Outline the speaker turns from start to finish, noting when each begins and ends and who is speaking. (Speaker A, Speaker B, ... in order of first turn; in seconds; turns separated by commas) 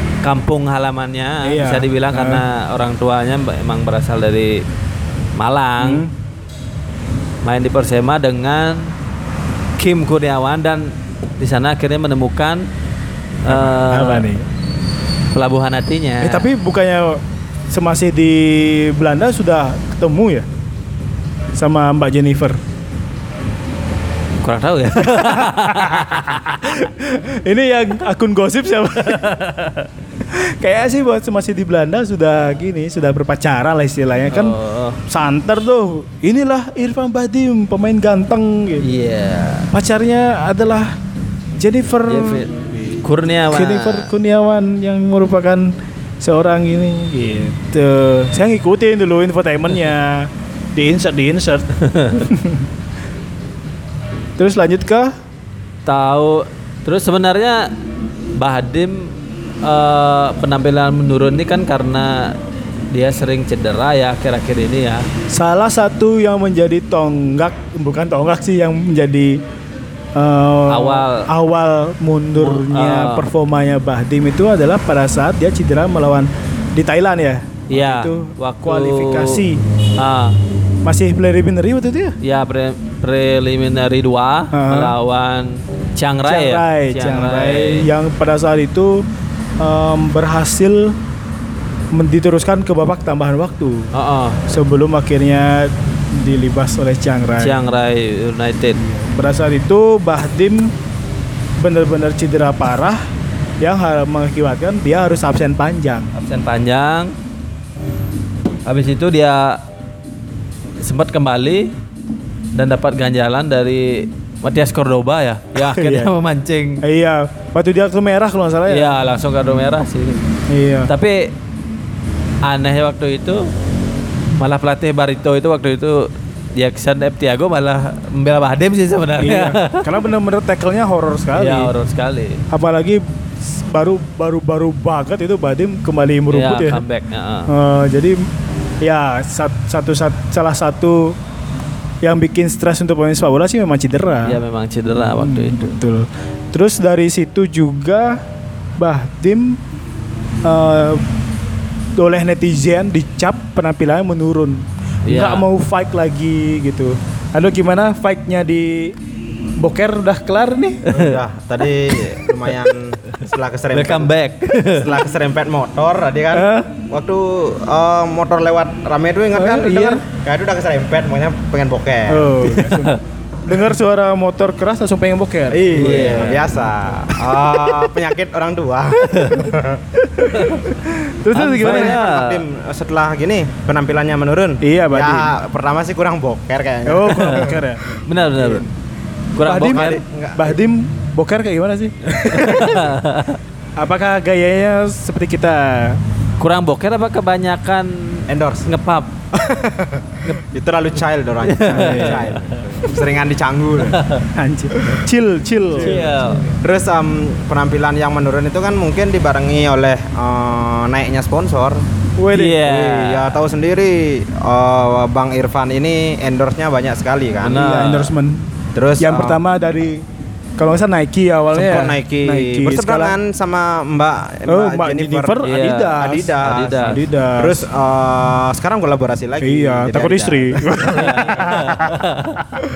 Speaker A: 0.2-4.6, Speaker B: 1.4-2.4, Speaker A: 5.4-6.0, Speaker B: 5.8-6.1, Speaker A: 7.4-8.9, Speaker A: 9.8-12.7, Speaker A: 13.5-14.3, Speaker B: 13.5-14.4, Speaker A: 15.3-16.5, Speaker B: 16.2-20.5, Speaker B: 21.6-22.6, Speaker A: 24.4-26.7, Speaker B: 25.0-29.4, Speaker A: 29.1-29.9, Speaker B: 30.3-34.5, Speaker A: 34.3-35.0, Speaker B: 35.1-38.9, Speaker A: 38.8-39.7, Speaker B: 39.7-41.0, Speaker B: 41.6-51.7, Speaker A: 42.1-44.1, Speaker A: 51.8-52.2, Speaker B: 52.3-52.6, Speaker B: 54.4-55.1, Speaker A: 55.9-57.7, Speaker A: 58.4-62.4, Speaker A: 62.9-65.1, Speaker B: 65.3-69.4, Speaker B: 70.2-79.6, Speaker A: 70.7-71.2, Speaker A: 72.3-73.3, Speaker A: 77.7-79.4, Speaker A: 80.0-80.4, Speaker B: 80.8-82.2, Speaker A: 82.2-87.9, Speaker B: 84.5-85.0, Speaker B: 86.2-89.0, Speaker B: 89.6-91.0, Speaker B: 91.9-93.9, Speaker A: 93.9-94.4, Speaker B: 94.5-97.6, Speaker A: 97.4-98.8, Speaker B: 98.9-100.7, Speaker B: 101.6-103.0, Speaker B: 103.6-106.1, Speaker A: 106.2-107.1, Speaker A: 108.7-109.6, Speaker A: 110.8-111.7, Speaker A: 112.5-116.8, Speaker B: 115.6-116.1, Speaker B: 116.8-119.0, Speaker A: 118.7-120.2, Speaker B: 120.5-120.9, Speaker A: 120.9-121.3, Speaker A: 122.4-123.5, Speaker A: 124.4-129.8, Speaker B: 129.2-131.7, Speaker A: 131.3-132.4, Speaker B: 132.5-136.8, Speaker A: 136.3-137.5, Speaker B: 137.5-138.2, Speaker B: 138.8-141.2, Speaker B: 142.0-144.4, Speaker A: 144.3-145.7, Speaker B: 145.2-148.2, Speaker B: 148.8-149.6, Speaker B: 150.4-151.0, Speaker B: 152.0-158.9, Speaker A: 155.1-155.5, Speaker B: 159.6-160.8, Speaker A: 160.9-161.2, Speaker C: 160.9-164.1, Speaker A: 163.7-164.9, Speaker C: 164.7-172.7, Speaker B: 166.3-166.7, Speaker B: 169.3-170.0, Speaker B: 172.1-177.4, Speaker C: 175.5-179.8, Speaker A: 175.8-176.4, Speaker A: 179.2-179.4, Speaker B: 180.0-182.0, Speaker A: 181.3-182.4, Speaker C: 181.6-187.6, Speaker B: 184.6-185.3, Speaker B: 186.9-187.8, Speaker A: 188.0-188.7, Speaker C: 188.4-188.6, Speaker A: 189.3-190.0, Speaker B: 189.4-192.9, Speaker C: 189.6-190.6, Speaker A: 192.2-193.4, Speaker B: 193.8-196.0, Speaker A: 196.4-199.1, Speaker C: 198.3-198.7, Speaker C: 199.6-204.0, Speaker A: 201.4-202.6, Speaker B: 201.7-202.3, Speaker A: 203.9-204.2, Speaker B: 204.3-206.1, Speaker C: 204.8-205.0, Speaker A: 205.8-206.4, Speaker C: 205.8-211.8, Speaker B: 212.2-212.6, Speaker A: 212.3-213.4, Speaker C: 212.6-217.8, Speaker A: 217.4-218.1, Speaker B: 217.5-218.4, Speaker C: 218.8-219.4, Speaker B: 219.0-220.0, Speaker B: 220.6-223.2, Speaker C: 221.5-231.8, Speaker B: 224.5-226.3, Speaker A: 225.4-227.0, Speaker B: 226.8-227.7, Speaker B: 229.4-231.6, Speaker A: 231.0-232.4